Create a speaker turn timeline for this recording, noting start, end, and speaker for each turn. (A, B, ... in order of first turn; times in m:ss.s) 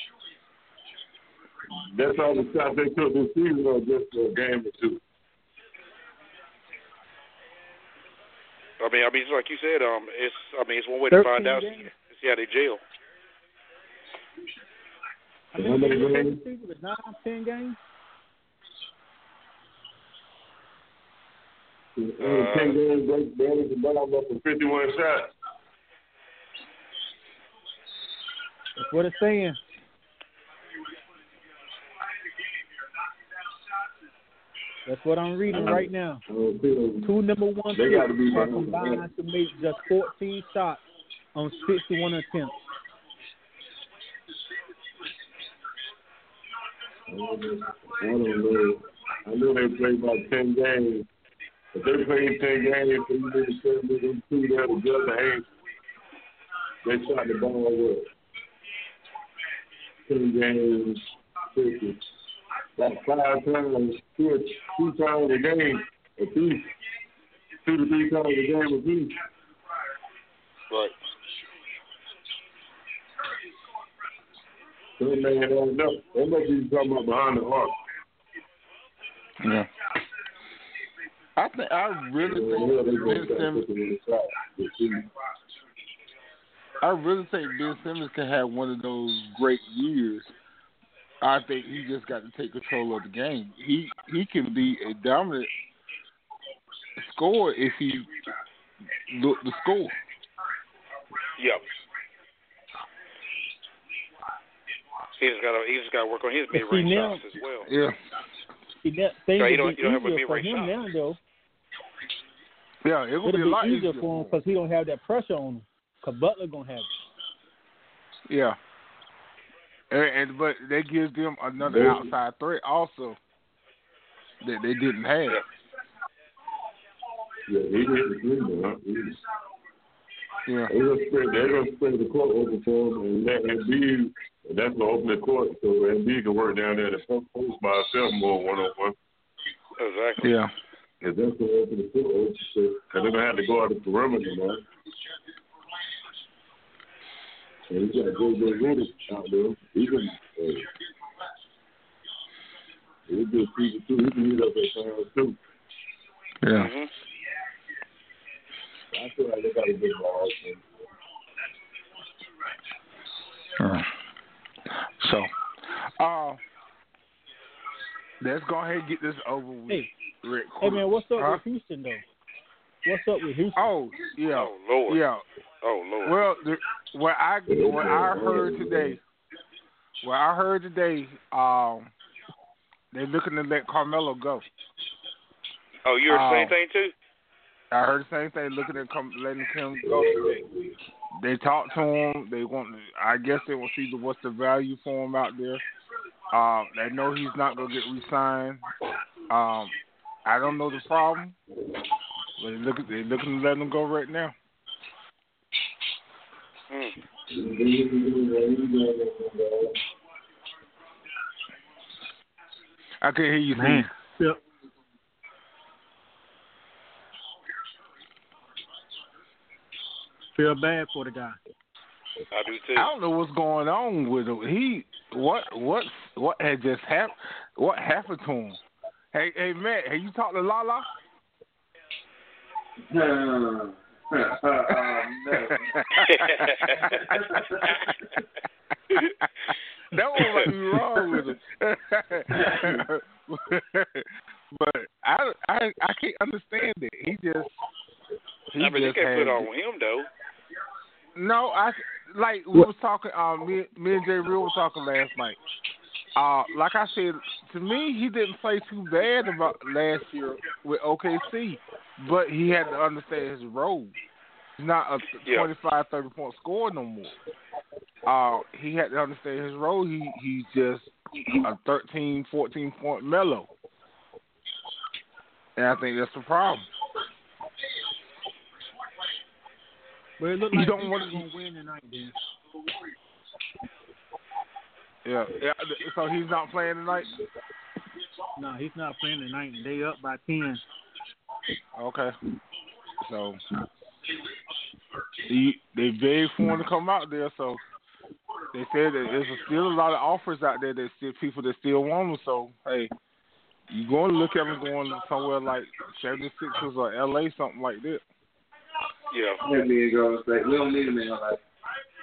0:01.8-0:05.0 A
0:08.8-0:12.8 B
0:11.1-0:11.9 C
0:15.5-0:17.8 C
0:15.6-0:16.4 A
0:22.0-0:25.3 A
0:22.2-0:22.8 B
0:28.8-0:29.6 C
0:34.8-0:36.2 C
0:35.5-0:37.1 A
0:37.0-0:40.8 C
0:37.7-0:39.0 A
0:41.3-0:42.6 C
0:47.1-0:51.1 A
0:51.7-0:55.5 A
0:56.8-0:58.1 A
1:00.1-1:02.0 A
1:02.8-1:06.7 A
1:07.6-1:09.2 A
1:15.0-1:17.7 A
1:19.4-1:19.7 D
1:21.4-1:23.6 D
1:22.2-1:25.1 A
1:26.8-1:30.3 D
1:31.2-1:35.5 D
1:37.0-1:38.1 D
1:39.0-1:40.0 D
1:41.4-1:41.6 B
1:45.2-1:47.7 B
1:46.5-1:47.2 C
1:47.6-1:48.0 D
1:48.8-1:51.2 C
1:49.4-1:50.7 B
1:52.8-1:54.4 D
1:53.2-1:56.9 C
1:58.3-1:58.6 D
1:59.9-2:03.2 D
2:01.6-2:02.1 A
2:04.4-2:05.4 D
2:07.5-2:09.2 A
2:10.5-2:10.7 D
2:10.7-2:18.9 A
2:19.8-2:20.2 B
2:20.2-2:20.5 D
2:21.0-2:24.6 A
2:27.7-2:30.7 A
2:33.1-2:35.4 A
2:36.4-2:36.7 D
2:36.5-2:36.9 B
2:38.9-2:40.6 A
2:43.6-2:43.9 D
2:44.8-2:46.4 D
2:48.2-2:51.4 D
2:50.6-2:52.0 C
2:52.8-2:53.7 C
2:53.6-2:55.2 D
2:54.3-2:55.0 B
2:55.6-2:56.2 B
2:56.0-2:59.0 D
2:57.5-2:59.0 A
3:00.0-3:01.9 D
3:02.9-3:04.4 D
3:05.8-3:06.9 B
3:06.1-3:06.6 D
3:07.7-3:10.4 D
3:09.8-3:10.7 A
3:11.1-3:15.6 D
3:16.3-3:18.7 D
3:19.3-3:19.7 D
3:20.2-3:21.4 D
3:22.4-3:24.3 D
3:26.7-3:27.0 B
3:27.3-3:29.8 A
3:33.0-3:33.9 D
3:33.5-3:34.4 C
3:40.3-3:41.4 C
3:42.3-3:42.9 B
3:42.8-3:48.6 D
3:49.1-3:50.8 D
3:52.8-3:55.7 E
3:54.9-3:57.9 D
3:56.0-3:56.7 B
3:56.8-3:57.7 E
3:58.9-3:59.3 D
3:59.9-4:07.5 D
4:02.4-4:02.8 E
4:08.5-4:09.5 D
4:08.6-4:10.1 B
4:11.2-4:15.4 D
4:16.2-4:23.9 D
4:24.6-4:27.2 D
4:28.0-4:33.5 D
4:35.6-4:36.7 D
4:40.2-4:42.2 C
4:40.5-4:41.2 D
4:45.0-4:47.1 D
4:48.4-4:50.6 C
4:51.8-4:52.1 D
4:53.0-4:53.4 D
4:55.3-4:57.6 D
4:58.5-5:02.9 D
5:03.7-5:08.0 D
5:09.1-5:09.4 B
5:09.4-5:11.4 E